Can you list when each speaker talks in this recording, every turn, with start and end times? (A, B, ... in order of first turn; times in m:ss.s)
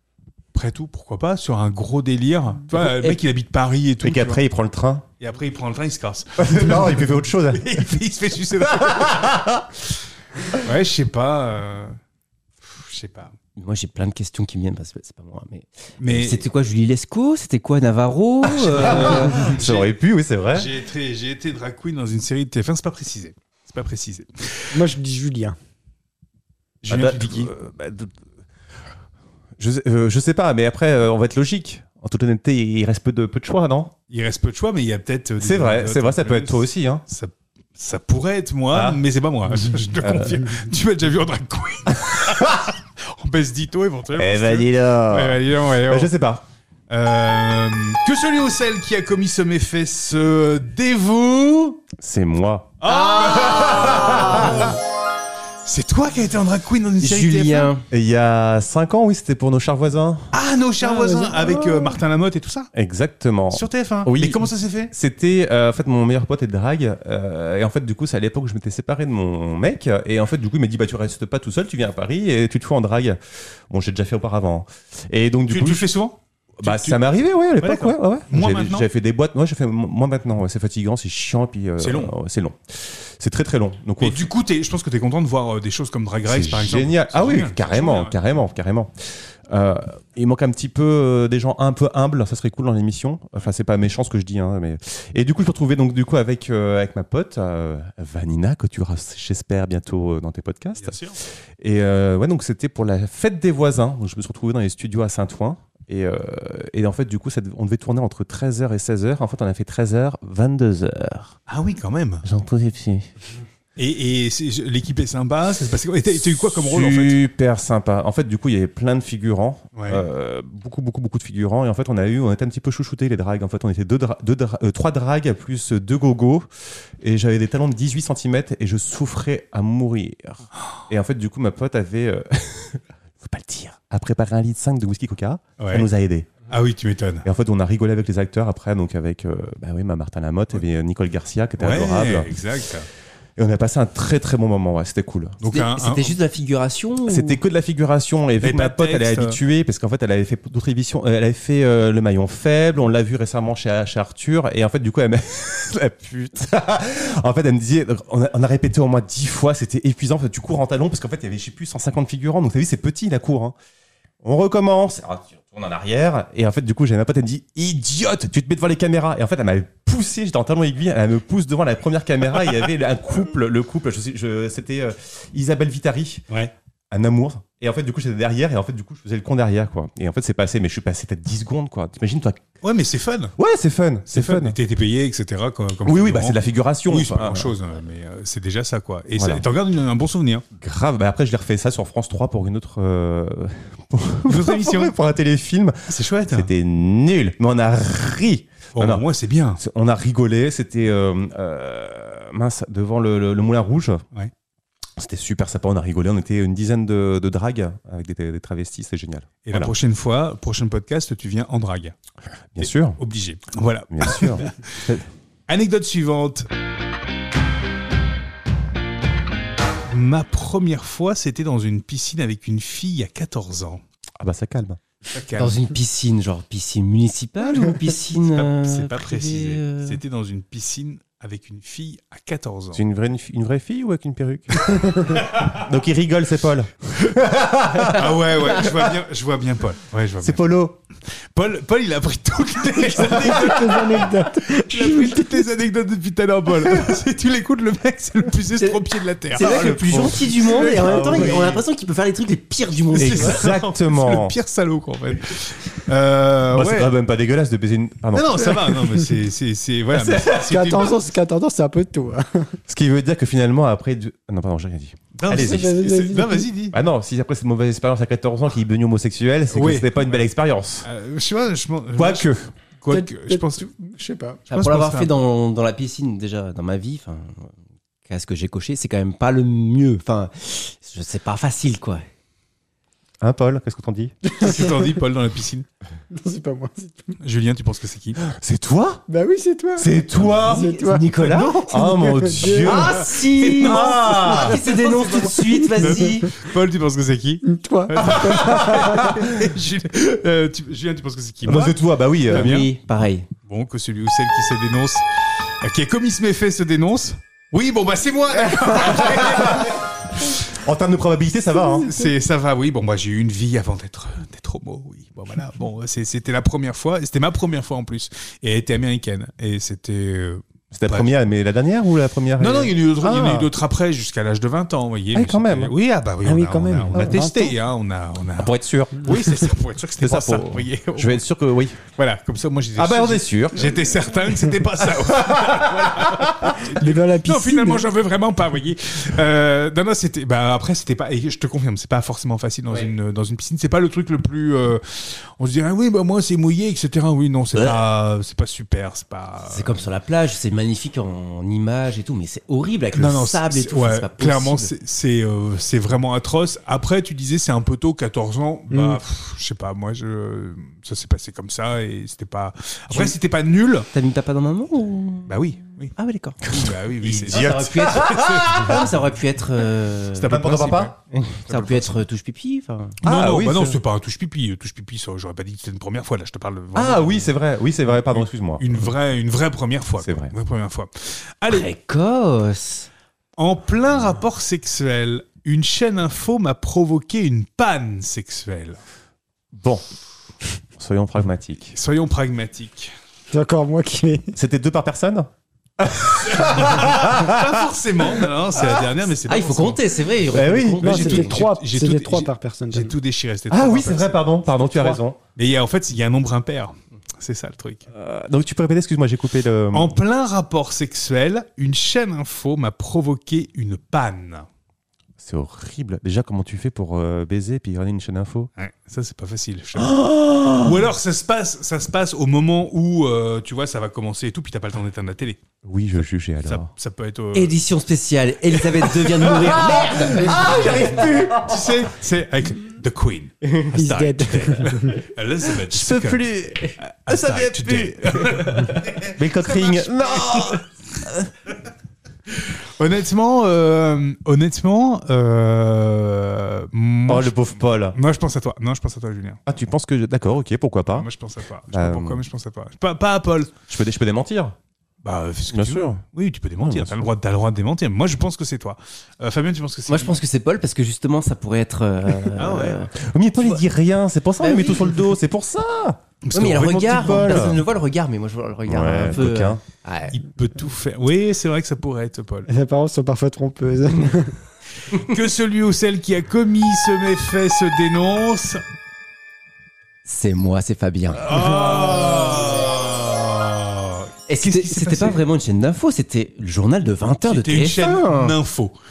0:00.5-0:04.4 A
0:02.8-0:03.2 B
0:04.0-0:05.1 C
0:05.2-0:09.2 A
0:06.4-0:07.8 C
0:08.6-0:09.7 C
0:10.5-0:12.0 A
0:12.6-0:13.4 A
0:13.6-0:19.6 B
0:16.0-0:16.5 A
0:18.5-0:20.7 C
0:18.7-0:19.9 A
0:20.5-0:24.8 A
0:24.7-0:25.6 D
0:26.8-0:27.5 A
0:26.9-0:28.1 C
0:29.6-0:33.9 C
0:34.1-0:46.1 A
0:35.4-0:37.0 C
0:38.7-0:39.0 C
0:40.0-0:40.4 C
0:44.2-0:46.5 C
0:46.9-0:51.8 A
0:52.0-0:54.7 C
0:52.8-0:54.8 A
0:55.6-0:57.7 A
0:57.0-0:57.8 B
0:57.9-1:00.3 C
1:00.3-1:02.7 A
1:00.8-1:02.0 D
1:02.7-1:15.9 C
1:03.5-1:04.9 A
1:15.5-1:17.0 A
1:16.6-1:24.3 C
1:17.6-1:18.9 A
1:21.8-1:22.1 A
1:24.0-1:28.2 A
1:26.3-1:51.3 C
1:40.8-1:41.2 A
1:51.5-1:52.3 A
1:52.2-1:53.1 C
1:53.8-1:57.2 A
1:56.6-2:06.5 C
1:59.7-2:00.0 A
2:07.0-2:16.3 C
2:15.6-2:15.9 A
2:16.5-2:17.3 A
2:17.2-2:22.5 C
2:21.6-2:22.9 A
2:23.4-2:25.4 C
2:25.4-2:26.2 A
2:25.5-2:27.4 B
2:27.1-2:43.6 C
2:28.4-2:29.4 A
2:44.2-2:56.2 C
2:56.9-3:02.4 C
3:02.6-3:03.3 A
3:03.4-3:04.6 C
3:04.1-3:10.4 A
3:05.8-3:07.5 C
3:09.2-3:09.4 C
3:10.6-3:19.0 C
3:14.3-3:14.9 A
3:15.9-3:16.5 A
3:18.8-3:19.6 A
3:19.6-3:24.0 C
3:25.0-3:29.7 C
3:29.4-3:32.0 A
3:32.6-3:33.0 C
3:32.6-3:34.9 A
3:33.9-3:35.1 C
3:35.5-3:36.5 A
3:39.9-3:43.8 A
3:44.2-3:44.8 C
3:45.1-3:45.6 A
3:45.4-3:50.0 B
3:48.3-3:52.8 A
3:52.7-3:58.8 C
3:57.9-4:00.5 A
4:00.2-4:00.8 C
4:01.1-4:11.6 A
4:02.8-4:05.4 D
4:08.6-4:13.4 B
4:09.4-4:11.4 C
4:12.9-4:16.9 A
4:13.0-4:14.4 C
4:16.5-4:18.6 C
4:18.1-4:21.0 A
4:19.9-4:22.6 D
4:22.7-4:25.8 C
4:25.2-4:26.8 A
4:25.3-4:26.5 D
4:26.7-4:30.9 C
4:29.5-4:30.3 A
4:30.8-4:33.6 A
4:32.0-4:32.5 C
4:32.9-4:34.4 D
4:34.5-4:35.1 A
4:34.5-4:37.5 B
4:38.1-4:42.0 B
4:43.2-4:44.1 C
4:44.3-4:44.7 D
4:44.4-4:45.7 A
4:46.1-4:47.2 D
4:47.2-4:48.2 A
4:48.3-4:49.0 C
4:49.1-4:52.9 D
4:49.8-4:50.7 C
4:50.4-4:51.7 B
4:51.6-4:54.6 C
4:52.5-4:56.3 B
4:52.7-5:02.7 A
4:54.1-4:56.0 D
4:57.5-4:59.2 D
4:58.3-4:59.3 C
5:01.4-5:02.7 C
5:02.3-5:03.3 B
5:03.5-5:10.4 A
5:08.6-5:09.8 C
5:10.4-5:11.9 C
5:11.8-5:21.1 A
5:20.7-5:23.5 C
5:22.4-5:31.2 A
5:25.1-5:25.8 C
5:26.2-5:27.6 D
5:28.4-5:29.3 C
5:30.0-5:31.8 C
5:31.9-5:49.8 A
5:32.8-5:33.8 C
5:35.1-5:36.4 C
5:36.7-5:37.9 D
5:47.5-5:47.8 B
5:49.5-5:54.7 B
5:52.9-6:03.9 A
5:58.7-5:59.0 D
6:03.9-6:05.3 B
6:05.3-6:05.9 A
6:06.0-6:06.5 B
6:06.5-6:08.1 A
6:07.0-6:10.4 B
6:07.2-6:08.9 C
6:10.1-6:11.0 A
6:10.3-6:10.9 C
6:11.1-6:13.0 B
6:11.5-6:12.0 A
6:13.0-6:17.3 A
6:13.0-6:13.8 C
6:16.8-6:18.6 C
6:18.0-6:21.7 A
6:20.0-6:20.3 C
6:21.5-6:22.9 B
6:23.4-6:28.8 A
6:29.5-6:29.8 C
6:30.8-6:31.8 C
6:31.7-6:32.9 A
6:33.3-6:34.4 D
6:34.4-6:37.6 C
6:36.1-6:39.8 A
6:39.3-6:41.4 B
6:40.3-6:40.9 C
6:40.8-6:44.3 A
6:40.8-6:42.9 D
6:43.5-6:45.2 C
6:45.4-6:47.9 A
6:47.9-6:50.0 C
6:49.7-6:54.5 A
6:55.2-6:58.5 C
6:58.6-7:05.4 A
6:59.8-7:00.9 C
7:05.6-7:06.7 C
7:06.4-7:07.6 A
7:07.3-7:11.1 B
7:09.4-7:11.8 C
7:10.4-7:16.2 A
7:13.4-7:13.7 B
7:13.7-7:15.0 D
7:15.7-7:21.3 C
7:16.8-7:20.6 A
7:22.5-7:29.4 A
7:27.1-7:28.0 C
7:29.5-7:31.1 C
7:30.9-7:33.5 A
7:31.7-7:32.2 C
7:33.7-7:34.6 C
7:35.0-7:40.2 A
7:35.5-7:36.0 C
7:36.6-7:37.1 C
7:39.9-7:43.6 B
7:42.3-7:42.9 A
7:42.9-7:47.6 C
7:44.4-7:45.2 B
7:46.2-7:47.6 A
7:46.3-7:50.2 B
7:48.7-7:49.6 C
7:50.1-7:52.5 A
7:52.5-7:54.4 D
7:54.8-7:58.6 A
8:00.1-8:02.4 B
8:01.2-8:05.2 A
8:04.3-8:08.4 B
8:07.2-8:08.8 A